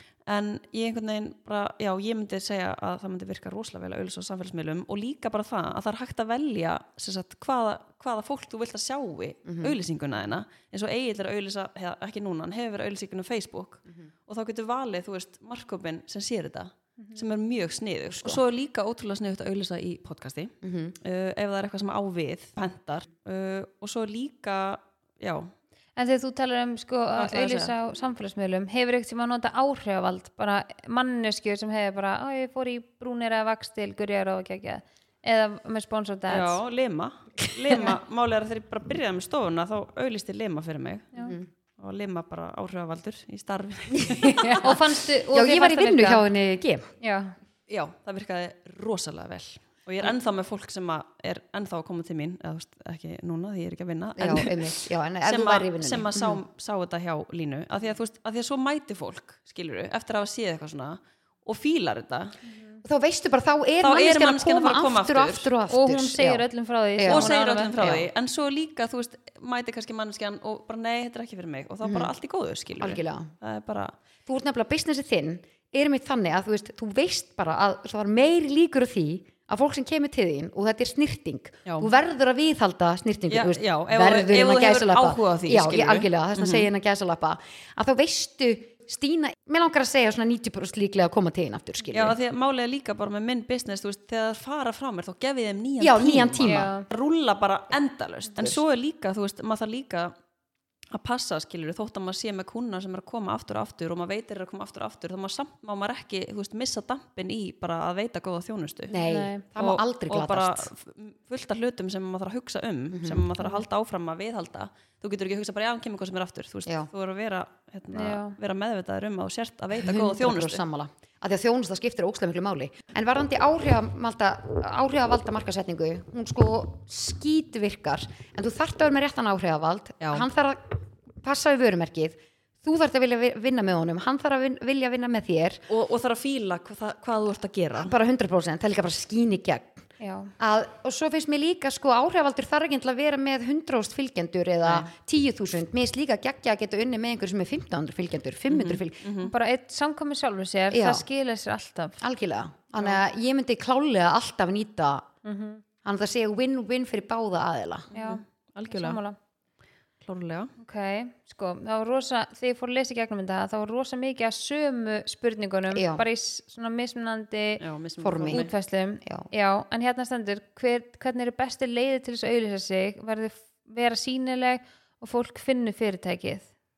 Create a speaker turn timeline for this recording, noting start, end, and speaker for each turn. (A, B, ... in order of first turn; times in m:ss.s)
0:00.3-0:25.5 A
0:09.4-0:09.8 B
0:18.1-0:18.4 B
0:20.6-0:21.0 B
0:26.0-0:36.6 C
0:27.2-0:27.7 A
0:36.3-0:41.2 A
0:37.7-0:37.9 B
0:41.8-0:44.8 A
0:44.0-0:44.7 B
0:44.6-0:46.2 C
0:45.3-0:46.9 B
0:47.0-0:47.3 C
0:47.7-1:02.3 A
0:54.2-0:56.4 B
1:02.4-1:02.8 C
1:02.8-1:06.4 B
1:03.8-1:05.5 A
1:05.7-1:07.7 C
1:07.0-1:08.1 B
1:07.1-1:13.9 A
1:11.8-1:12.1 B
1:12.8-1:13.3 B
1:14.2-1:32.2 B
1:21.6-1:21.9 A
1:23.3-1:26.7 A
1:31.9-1:40.1 A
1:35.8-1:36.7 B
1:36.4-1:36.8 C
1:40.9-1:49.0 A
1:48.9-1:50.7 B
1:49.0-1:49.4 C
1:49.6-2:00.6 A
1:52.9-1:53.3 B
1:57.9-1:58.4 C
1:59.8-2:15.6 B
2:15.7-2:17.9 A
2:17.8-2:19.8 B
2:20.0-2:20.3 C
2:20.4-2:29.0 B
2:28.5-2:29.3 A
2:29.2-2:32.0 C
2:30.7-2:31.0 B
2:32.0-2:35.0 B
2:35.2-2:35.6 C
2:35.8-2:37.9 B
2:37.9-2:39.0 A
2:37.9-2:39.2 C
2:40.0-2:40.5 A
2:40.6-2:47.6 C
2:45.7-2:46.0 B
2:47.6-2:48.5 A
2:48.0-2:48.5 B
2:48.3-2:56.4 C
2:49.0-2:49.3 B